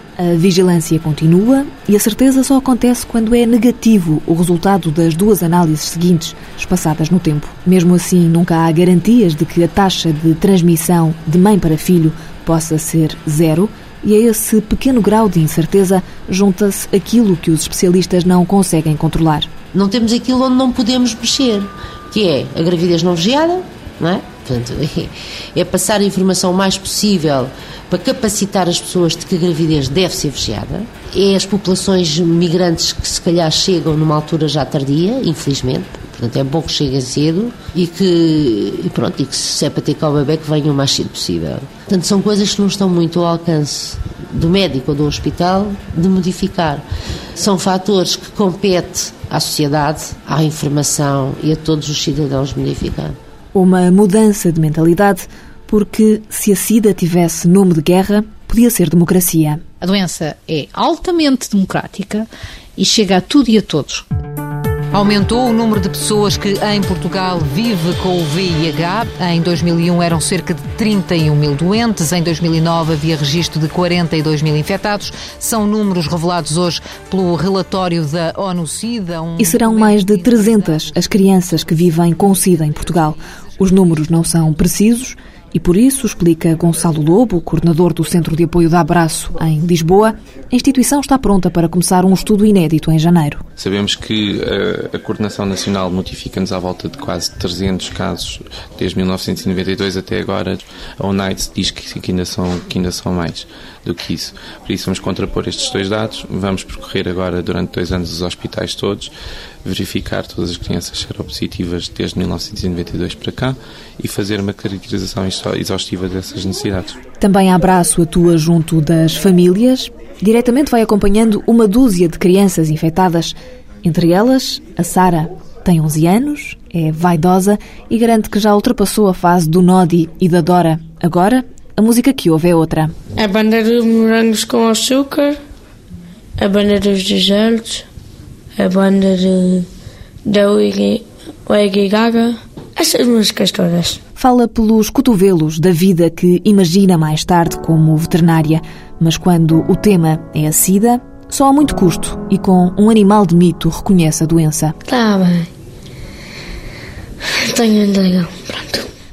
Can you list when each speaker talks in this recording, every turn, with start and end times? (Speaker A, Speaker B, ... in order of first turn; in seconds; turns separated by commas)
Speaker A: 0.2-19.6, Speaker B: 19.7-46.9, Speaker B: 47.4-53.2, Speaker A: 53.5-59.6, Speaker C: 59.8-64.0, Speaker D: 64.9-80.5, Speaker A: 79.4-93.4, Speaker E: 93.6-109.1, Speaker E: 109.6-117.0, Speaker A: 117.2-132.9, Speaker F: 133.2-135.4, Speaker F: 136.4-137.9, Speaker F: 138.6-139.7, Speaker F: 140.2-144.0, Speaker A: 144.2-154.8, Speaker F: 154.8-155.5, Speaker F: 157.4-158.9